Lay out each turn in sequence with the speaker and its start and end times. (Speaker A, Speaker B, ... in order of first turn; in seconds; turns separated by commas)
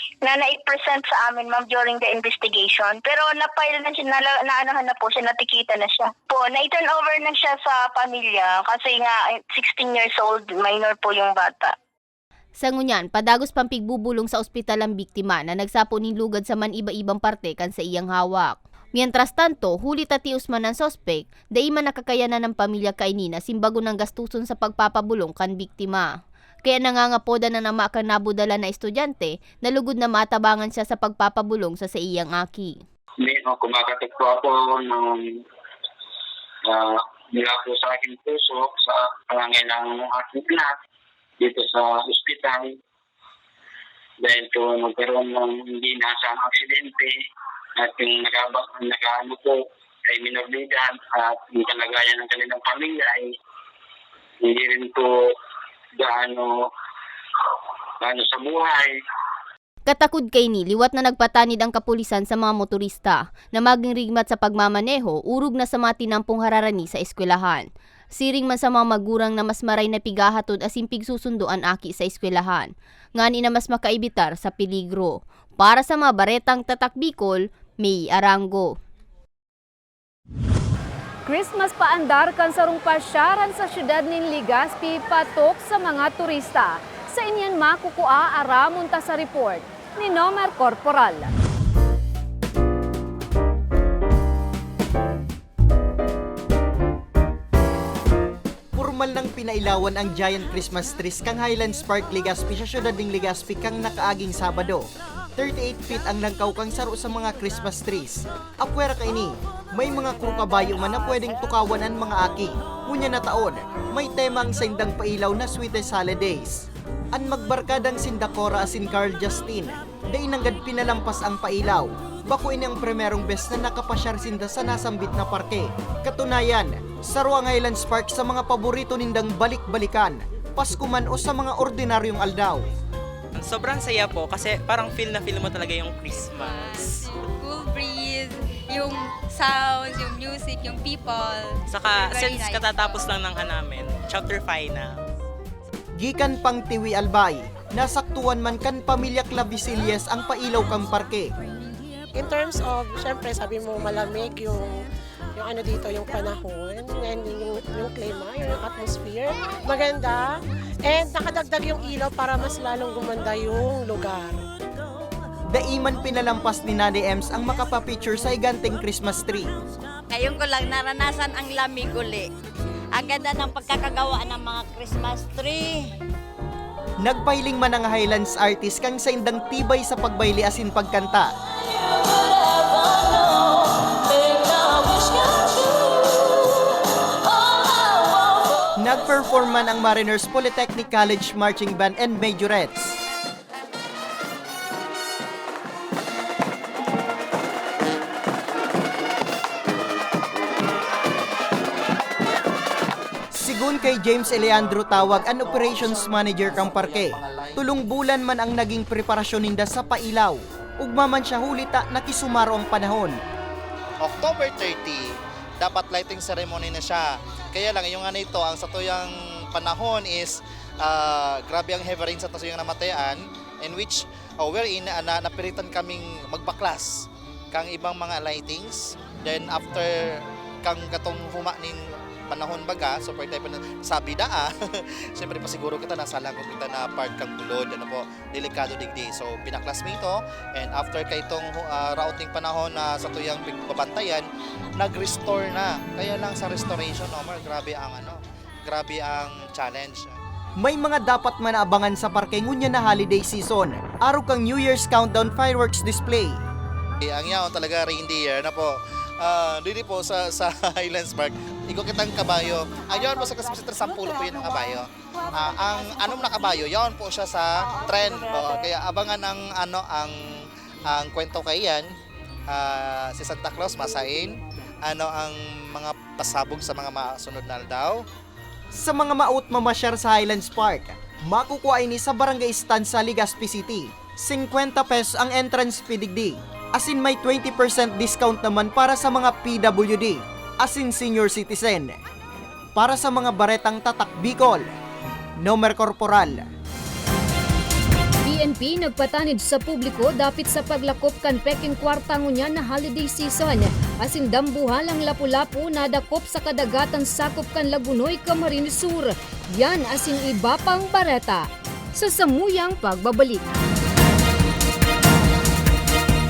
Speaker A: 0.2-11.7, Speaker B: 12.6-32.8, Speaker C: 33.2-35.4, Speaker C: 36.6-40.7, Speaker C: 41.4-42.7, Speaker C: 44.2-47.1, Speaker C: 47.8-53.3, Speaker C: 54.4-55.0, Speaker C: 56.0-56.5, Speaker C: 58.0-58.9, Speaker B: 59.9-78.8, Speaker D: 81.2-91.3, Speaker E: 98.7-132.7, Speaker F: 133.3-137.0, Speaker G: 136.2-143.0, Speaker F: 141.7-145.0, Speaker E: 145.9-151.3, Speaker H: 152.1-154.8, Speaker H: 155.3-164.5, Speaker E: 165.5-169.5, Speaker I: 170.1-172.3, Speaker I: 172.9-175.8, Speaker E: 177.0-181.3, Speaker E: 188.8-193.0, Speaker E: 203.3-213.2, Speaker J: 214.0-244.2, Speaker J: 244.8-250.1, Speaker E: 250.6-256.4, Speaker J: 257.0-271.9, Speaker J: 272.5-278.0, Speaker E: 278.7-292.0, Speaker E: 292.8-294.7, Speaker E: 295.4-296.5, Speaker D: 298.2-313.5